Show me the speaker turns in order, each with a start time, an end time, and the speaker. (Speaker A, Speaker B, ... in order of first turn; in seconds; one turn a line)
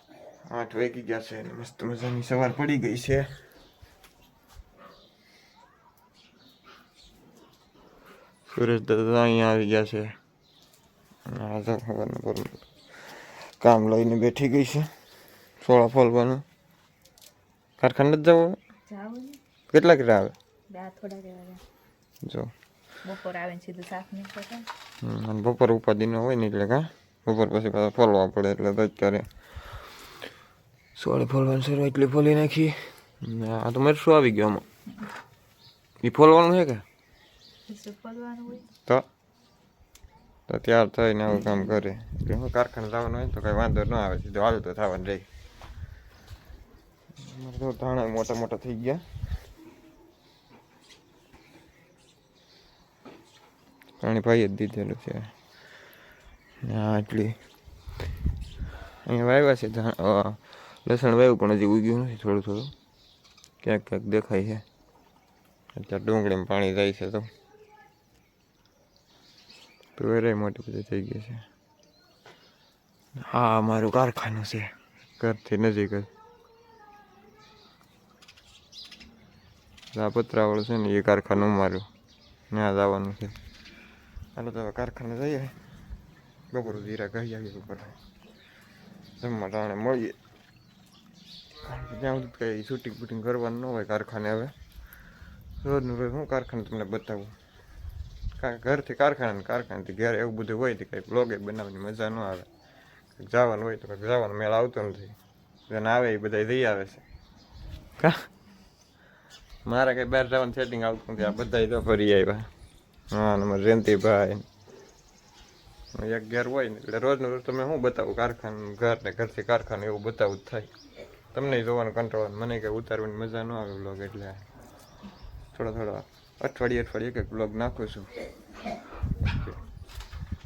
Speaker A: 0.4-3.4
Speaker A: 8.5-10.1
Speaker A: 11.2-14.9
Speaker A: 15.6-16.4
Speaker A: 17.8-18.6
Speaker B: 18.9-19.4
Speaker A: 19.7-20.3
Speaker B: 20.7-21.6
Speaker A: 22.2-22.5
Speaker B: 23.0-24.7
Speaker A: 25.0-29.3
Speaker A: 31.0-34.7
Speaker A: 36.0-36.8
Speaker B: 37.7-38.7
Speaker A: 40.5-45.3
Speaker A: 47.2-49.0
Speaker A: 54.0-55.3
Speaker A: 56.6-57.4
Speaker A: 59.0-62.7
Speaker A: 63.6-64.6
Speaker A: 65.8-67.3
Speaker A: 70.0-71.4
Speaker A: 73.2-76.1
Speaker A: 79.9-81.9
Speaker A: 82.5-83.3
Speaker A: 84.4-85.5
Speaker A: 86.5-88.0
Speaker A: 89.2-90.2
Speaker A: 91.6-94.5
Speaker A: 95.6-97.3
Speaker A: 98.4-102.5
Speaker A: 103.2-105.2
Speaker A: 105.7-107.0
Speaker A: 108.0-108.2
Speaker A: 109.6-112.5
Speaker A: 113.1-114.4
Speaker A: 115.9-120.7
Speaker A: 121.3-124.4
Speaker A: 125.5-128.1
Speaker A: 129.2-129.6